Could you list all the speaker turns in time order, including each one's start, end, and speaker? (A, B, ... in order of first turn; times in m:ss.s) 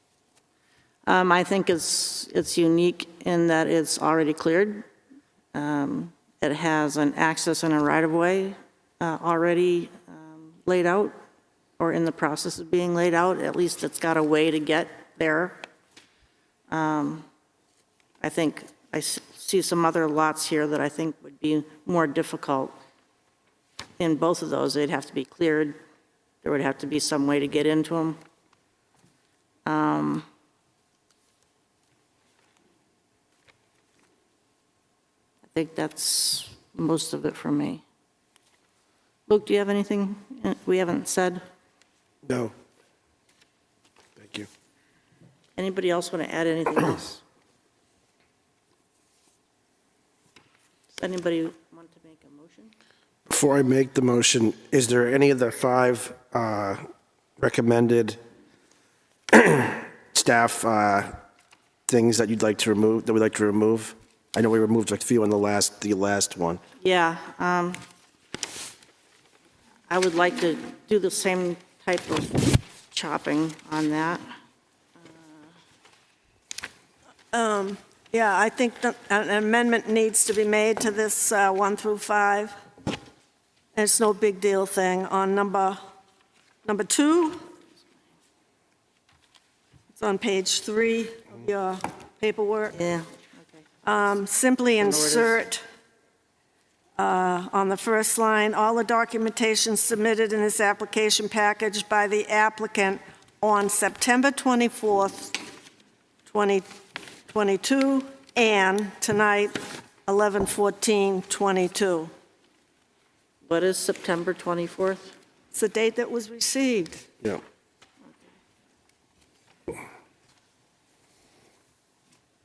0:01.0-0:04.8 A
0:05.5-0:11.1 A
0:11.8-0:15.6 A
0:16.7-0:17.2 A
0:18.2-0:22.7 A
0:24.0-0:25.8 A
0:26.4-0:28.2 A
0:29.6-0:30.2 A
0:35.5-0:37.8 A
0:39.3-0:41.4 A
0:42.2-0:42.5 B
0:44.2-0:44.5 B
0:45.6-0:47.2 A
0:50.9-0:52.7 A
0:53.3-0:56.8 B
0:57.4-0:58.2 B
0:59.3-1:01.1 B
1:01.9-1:06.6 B
1:06.8-1:07.8 A
1:09.9-1:14.2 A
1:15.1-1:15.4 A
1:17.3-1:22.5 C
1:23.7-1:25.8 C
1:26.6-1:27.4 C
1:29.9-1:32.8 C
1:32.8-1:33.6 A
1:33.8-1:35.6 C
1:34.8-1:35.4 A
1:37.0-1:45.4 C
1:46.3-1:46.7 C
1:47.3-1:52.1 C
1:53.4-1:55.1 A
1:55.5-1:57.0 C